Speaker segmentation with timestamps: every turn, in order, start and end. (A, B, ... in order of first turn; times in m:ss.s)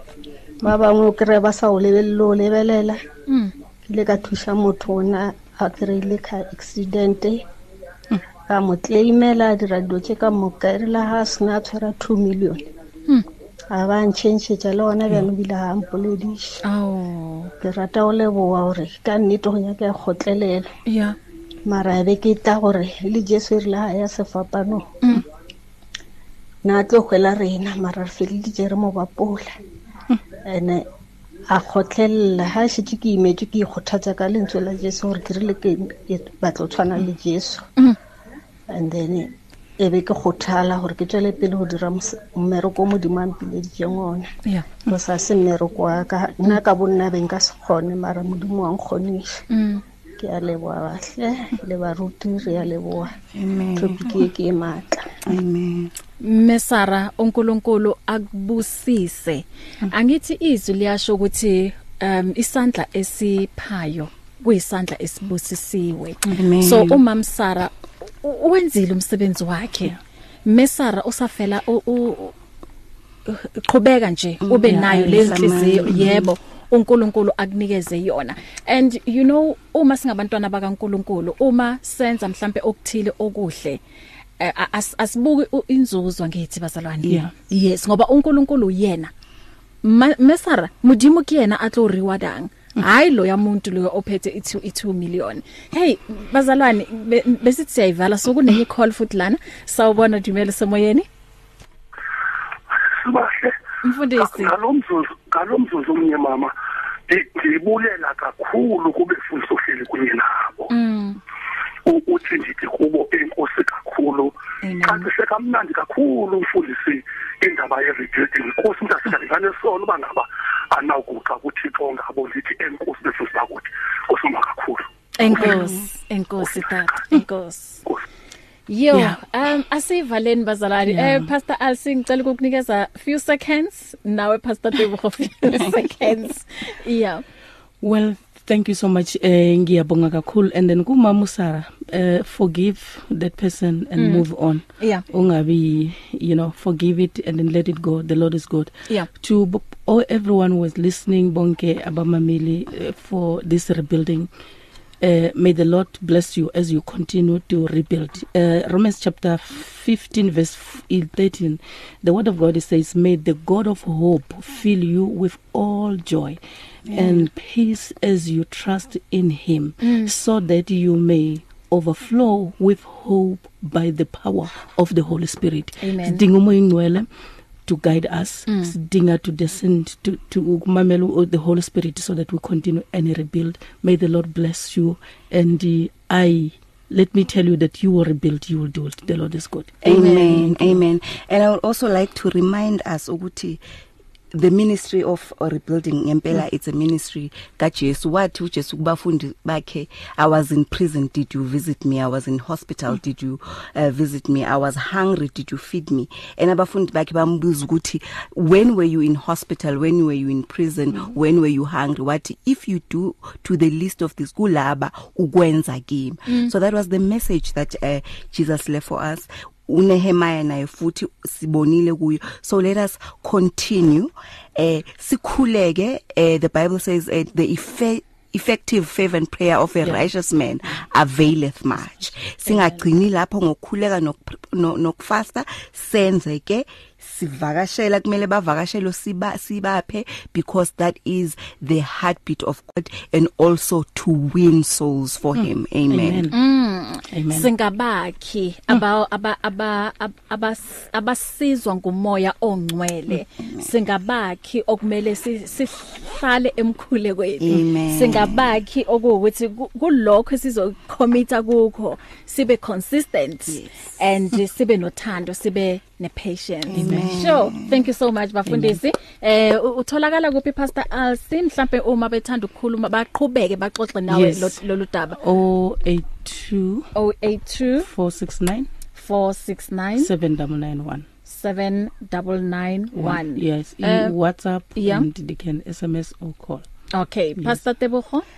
0:00.6-0:03.0 A
0:03.3-0:03.5 B
0:03.9-0:07.4 A
0:08.5-0:12.6 A
0:13.7-0:16.6 A
0:16.6-0:17.5 B
0:17.6-0:20.7 A
0:20.9-0:21.2 B
0:21.7-0:24.8 A
0:26.6-0:29.6 A
0:30.5-0:30.8 A
0:31.5-0:37.6 A
0:38.7-0:39.3 A
0:39.8-0:44.3 A
0:44.4-0:44.8 B
0:44.9-0:49.4 A
0:49.5-0:49.8 B
0:50.2-0:53.1 A
0:53.3-0:54.3 C
0:53.8-0:55.1 A
0:55.3-0:55.9 C
0:56.2-1:12.4 B
1:06.4-1:07.0 C
1:13.3-1:23.8 B
1:14.4-1:16.3 C
1:14.7-1:15.3 D
1:24.4-1:29.1 B
1:27.0-1:27.3 D
1:29.8-1:41.1 B
1:42.8-1:43.6 E
1:43.8-1:44.5 B
1:44.2-1:46.5 E
1:47.1-1:50.7 E
1:50.7-1:51.2 B
1:51.9-2:04.9 E
1:54.6-1:55.1 B
2:05.2-2:07.8 B
2:05.4-2:05.7 D
2:08.7-2:17.2 B
2:08.9-2:09.2 D
2:10.9-2:11.3 D
2:17.8-2:34.3 D
2:24.0-2:24.2 B
2:24.8-2:25.0 B
2:35.0-2:57.1 D
2:46.9-2:47.2 C
2:49.8-2:50.1 B
2:55.8-2:56.2 B
2:57.7-3:10.7 D
2:58.5-2:58.7 B
3:09.8-3:13.6 C
3:09.8-3:10.5 B
3:14.3-4:06.3 C
3:36.3-3:36.5 B
3:49.8-3:50.1 D
3:52.0-3:52.6 D
4:05.4-4:06.4 D
4:06.3-4:35.2 B
4:07.1-4:07.5 D
4:13.4-4:13.7 C
4:17.4-4:18.6 C
4:23.5-4:23.8 C
4:26.7-4:27.8 C
4:26.8-4:27.2 D
4:28.5-4:28.8 D
4:34.1-4:34.6 D
4:35.1-4:36.9 D
4:37.0-4:37.9 B
4:37.8-4:38.7 D
4:39.0-4:40.1 B
4:40.0-4:41.1 D
4:41.3-4:44.1 B
4:42.9-4:46.6 D
4:44.8-4:45.1 B
4:46.9-4:48.2 B